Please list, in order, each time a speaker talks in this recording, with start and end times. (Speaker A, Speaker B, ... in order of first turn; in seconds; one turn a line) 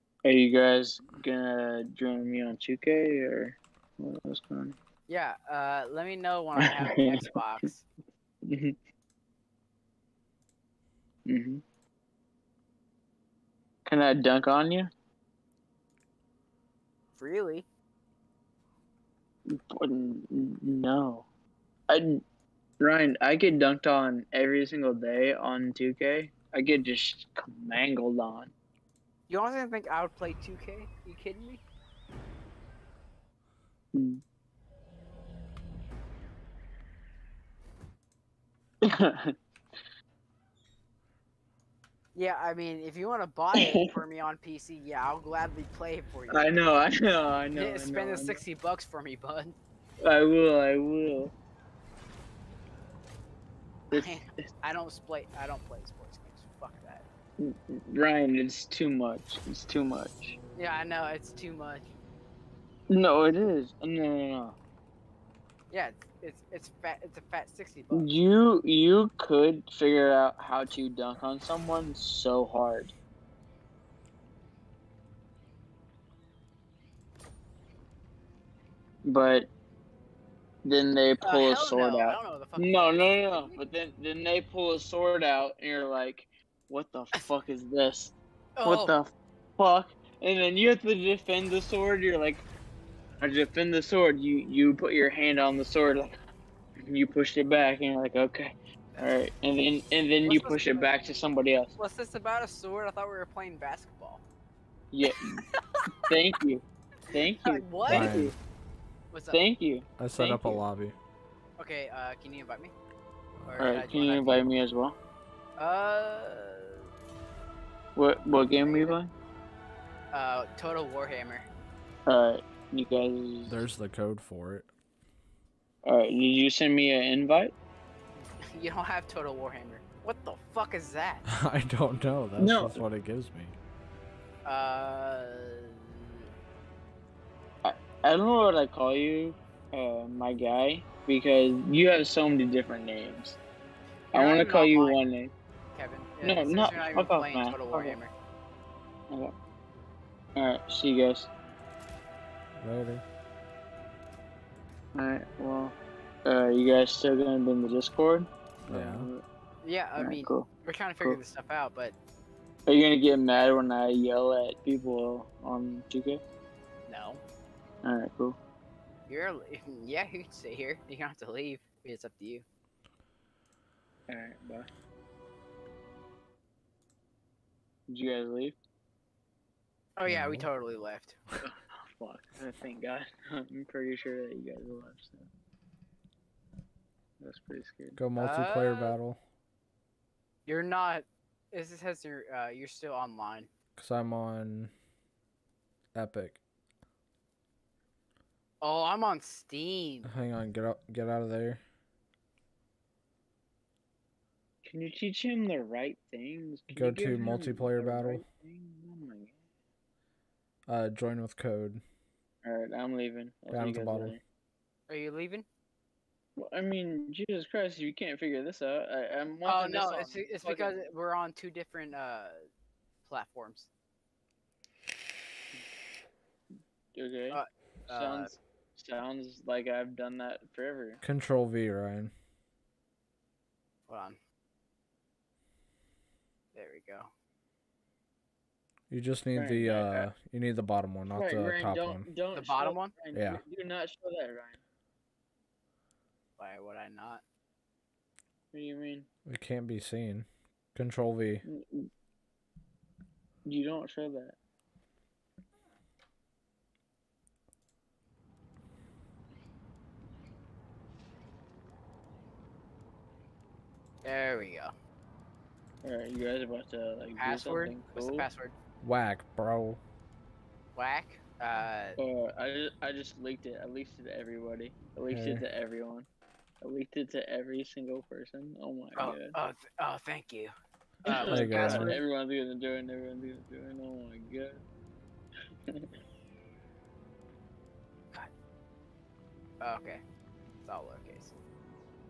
Speaker A: 0.2-4.8
Speaker B: 5.1-7.8
Speaker A: 6.6-7.2
Speaker A: 8.5-8.7
Speaker A: 11.3-11.6
Speaker A: 13.9-14.9
Speaker B: 17.1-17.7
Speaker A: 19.7-21.3
Speaker A: 21.9-22.2
Speaker A: 22.8-28.5
Speaker B: 29.3-31.6
Speaker A: 33.9-34.2
Speaker A: 38.9-39.2
Speaker B: 42.1-46.5
Speaker A: 46.3-48.4
Speaker B: 47.5-49.6
Speaker A: 50.0-51.3
Speaker A: 53.9-54.2
Speaker B: 53.9-57.0
Speaker A: 57.4-60.4
Speaker B: 60.6-61.9
Speaker A: 62.9-64.6
Speaker B: 65.7-68.1
Speaker A: 67.9-72.9
Speaker A: 79.0-79.5
Speaker A: 80.7-92.5
Speaker B: 81.2-83.6
Speaker B: 88.6-89.0
Speaker A: 93.2-96.1
Speaker A: 96.8-101.8
Speaker B: 100.2-100.9
Speaker B: 101.8-104.2
Speaker A: 104.9-105.4
Speaker B: 105.6-105.9
Speaker A: 106.1-108.3
Speaker B: 107.4-108.2
Speaker C: 107.9-108.3
Speaker B: 109.1-109.4
Speaker A: 109.3-109.9
Speaker C: 110.0-111.0
Speaker B: 110.2-110.6
Speaker B: 111.6-112.8
Speaker C: 113.4-113.7
Speaker B: 113.5-114.5
Speaker A: 113.6-115.0
Speaker B: 115.6-116.8
Speaker A: 118.0-119.1
Speaker B: 118.5-119.0
Speaker B: 120.1-121.5
Speaker A: 122.1-123.6
Speaker C: 123.5-124.7
Speaker A: 125.8-127.5
Speaker B: 128.5-131.2
Speaker C: 131.3-133.6
Speaker A: 132.4-132.8
Speaker B: 134.4-136.0
Speaker A: 137.6-143.4
Speaker A: 144.1-145.3
Speaker B: 144.1-145.0
Speaker B: 145.7-148.1
Speaker A: 146.2-148.0
Speaker A: 150.4-151.3
Speaker C: 152.6-153.0
Speaker A: 154.9-159.2
Speaker C: 158.7-159.1
Speaker B: 159.6-162.0
Speaker A: 160.0-160.5
Speaker A: 162.7-166.2
Speaker B: 166.9-167.2
Speaker A: 167.8-168.4
Speaker B: 169.1-172.4
Speaker A: 174.1-174.7
Speaker A: 177.9-178.6
Speaker B: 180.0-181.2
Speaker C: 180.1-180.5
Speaker A: 181.4-185.3
Speaker A: 187.2-188.0
Speaker C: 188.0-189.2
Speaker B: 188.2-189.0
Speaker B: 190.5-193.5
Speaker C: 193.8-194.7
Speaker C: 195.9-196.4
Speaker B: 198.6-200.1
Speaker C: 200.1-201.6
Speaker A: 204.6-209.4
Speaker C: 206.7-208.2
Speaker C: 210.7-211.8
Speaker A: 212.4-214.2
Speaker C: 213.5-214.2
Speaker B: 214.9-215.5
Speaker A: 216.4-220.8
Speaker B: 219.4-222.4
Speaker B: 223.0-223.7
Speaker A: 226.9-231.0
Speaker B: 227.3-228.4
Speaker C: 231.0-232.1
Speaker B: 233.9-234.2
Speaker B: 236.5-237.1
Speaker C: 238.9-242.1
Speaker A: 239.3-240.1
Speaker A: 241.1-244.6
Speaker B: 242.3-242.9
Speaker C: 243.1-243.4
Speaker B: 246.4-247.2
Speaker A: 248.5-249.1
Speaker C: 249.3-251.4
Speaker A: 251.4-251.8
Speaker A: 253.4-254.4
Speaker B: 264.0-264.7
Speaker A: 265.8-268.3
Speaker B: 267.2-268.6
Speaker C: 268.8-269.8
Speaker B: 270.8-272.0
Speaker A: 272.0-276.1
Speaker C: 275.1-275.4
Speaker A: 276.6-279.4
Speaker B: 279.0-280.5
Speaker B: 281.1-282.0
Speaker A: 281.1-284.6
Speaker C: 281.3-282.0
Speaker B: 289.6-290.0
Speaker B: 290.6-291.4